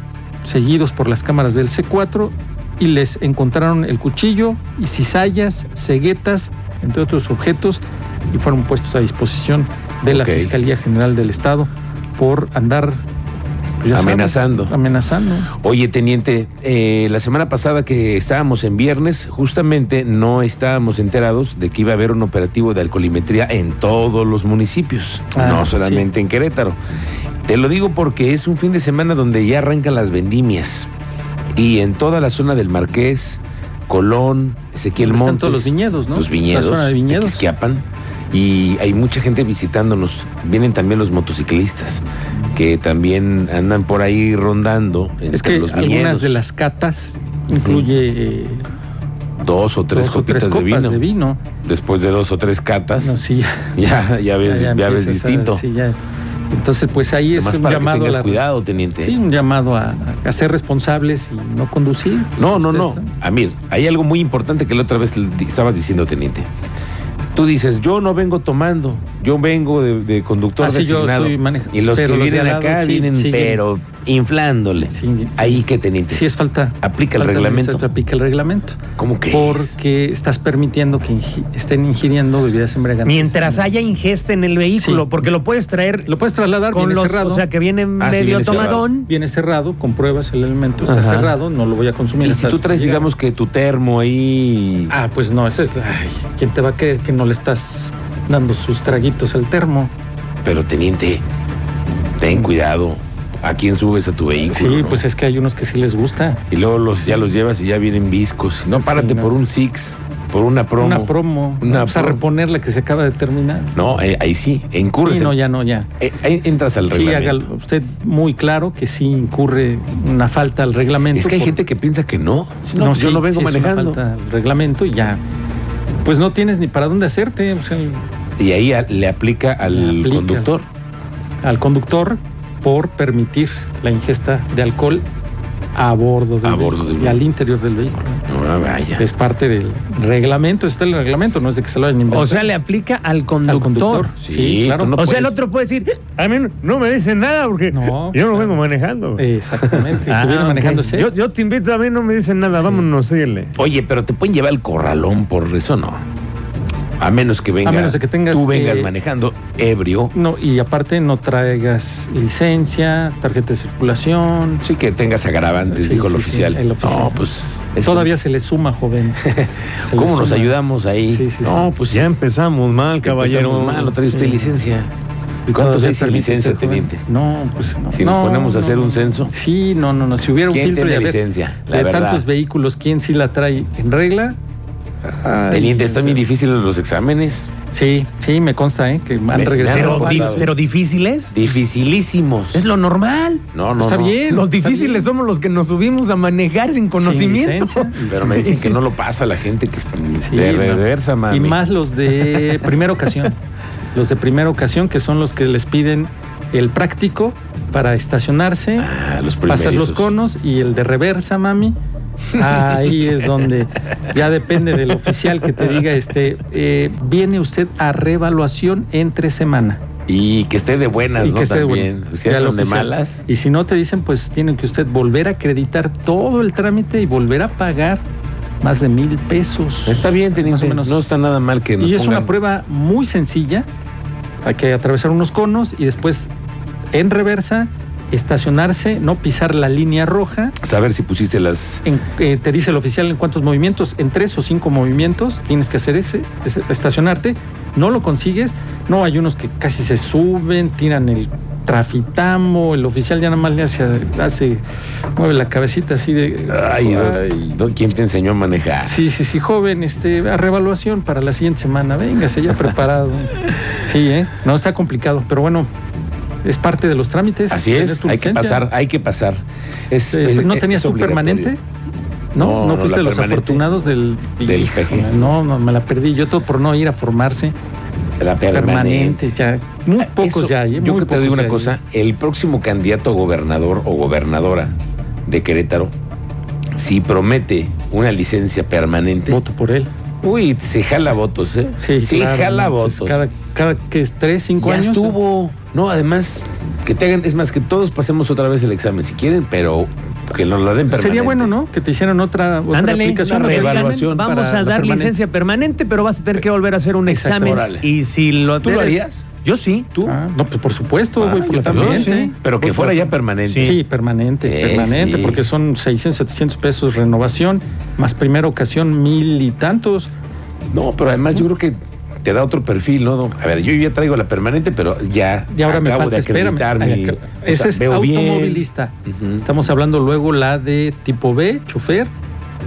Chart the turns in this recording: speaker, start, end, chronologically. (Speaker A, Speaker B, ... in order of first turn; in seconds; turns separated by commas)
Speaker A: 0.4-13.0, Speaker B: 10.1-10.5, Speaker A: 13.8-15.5, Speaker B: 13.9-14.7, Speaker B: 15.5-26.8, Speaker A: 25.3-26.1, Speaker B: 27.4-30.9, Speaker B: 31.6-46.4, Speaker A: 35.0-37.5, Speaker A: 45.3-48.7, Speaker B: 49.4-51.0, Speaker A: 49.9-51.4, Speaker B: 51.6-53.2, Speaker A: 53.0-53.8, Speaker B: 53.7-55.6, Speaker A: 54.4-56.0, Speaker A: 56.5-58.4, Speaker B: 57.3-59.2, Speaker A: 59.0-63.1, Speaker B: 62.4-66.5, Speaker B: 67.3-76.2, Speaker A: 70.6-73.6, Speaker A: 74.9-83.7, Speaker B: 76.8-77.9, Speaker B: 79.0-79.8, Speaker C: 83.0-86.1, Speaker A: 84.8-85.1, Speaker A: 86.0-87.5, Speaker C: 86.7-89.1, Speaker B: 88.0-88.9, Speaker A: 89.1-93.1, Speaker C: 90.8-91.3, Speaker B: 92.2-94.9, Speaker A: 94.9-99.9, Speaker B: 100.4-101.2, Speaker B: 102.2-105.0, Speaker A: 104.5-106.4, Speaker B: 106.5-112.2, Speaker A: 108.8-109.3, Speaker A: 110.8-113.8, Speaker B: 113.7-115.3, Speaker A: 115.0-115.9, Speaker B: 116.0-117.5, Speaker A: 116.8-121.6, Speaker B: 121.1-124.0, Speaker A: 122.7-125.2, Speaker A: 126.0-128.0, Speaker B: 128.4-130.7, Speaker A: 129.6-130.5, Speaker A: 131.4-135.0, Speaker A: 135.7-138.2, Speaker B: 136.4-137.2, Speaker B: 138.3-139.1, Speaker A: 139.0-142.5, Speaker C: 142.1-144.1, Speaker A: 143.4-144.9, Speaker B: 144.2-145.3, Speaker C: 144.9-153.5, Speaker A: 147.7-148.6, Speaker A: 149.2-151.1, Speaker A: 152.5-152.9, Speaker B: 153.6-156.0, Speaker B: 157.0-160.1, Speaker A: 157.6-158.9, Speaker A: 160.1-164.6, Speaker B: 164.6-168.1, Speaker A: 165.7-169.2, Speaker B: 169.2-172.1, Speaker A: 169.8-170.5, Speaker A: 171.1-171.6, Speaker C: 171.9-174.0, Speaker B: 173.0-174.9, Speaker A: 174.0-174.6, Speaker A: 175.5-184.4, Speaker B: 175.5-177.0, Speaker B: 177.9-179.3, Speaker B: 180.5-182.2, Speaker A: 185.0-186.2, Speaker B: 185.5-187.5, Speaker A: 187.7-190.5, Speaker B: 189.3-190.5, Speaker C: 189.7-191.4, Speaker B: 191.3-192.6, Speaker C: 192.5-193.4, Speaker B: 193.5-194.2, Speaker A: 193.8-195.1, Speaker C: 194.2-198.8, Speaker A: 197.0-198.4, Speaker B: 198.1-201.6, Speaker A: 200.2-203.4, Speaker A: 203.9-208.9, Speaker B: 208.8-210.1, Speaker A: 209.5-211.7, Speaker A: 212.3-219.8, Speaker B: 220.1-223.2, Speaker A: 221.2-228.0, Speaker A: 228.6-231.1, Speaker B: 229.8-232.3, Speaker A: 231.8-233.7, Speaker A: 234.4-236.3, Speaker A: 236.9-240.6, Speaker B: 240.6-241.8, Speaker A: 241.8-254.6, Speaker A: 255.2-257.2, Speaker B: 256.5-259.0, Speaker A: 258.8-265.7, Speaker A: 266.4-268.6, Speaker B: 267.5-271.5, Speaker A: 270.1-271.6, Speaker A: 272.3-277.5, Speaker B: 272.4-273.8, Speaker B: 274.4-275.1, Speaker B: 278.2-279.3, Speaker A: 278.5-281.7, Speaker B: 280.0-284.8, Speaker B: 285.3-285.9, Speaker B: 286.7-289.4, Speaker A: 289.3-289.9, Speaker B: 290.2-293.2, Speaker A: 291.8-295.2, Speaker B: 294.6-301.5, Speaker A: 300.9-305.1, Speaker C: 302.7-309.9, Speaker B: 303.2-304.2, Speaker A: 307.1-307.6, Speaker B: 307.4-307.9, Speaker B: 308.6-309.2, Speaker A: 310.0-320.1, Speaker B: 311.2-313.8, Speaker C: 311.6-312.3, Speaker C: 313.5-313.8, Speaker B: 314.4-315.4, Speaker B: 320.7-329.4, Speaker A: 325.5-332.1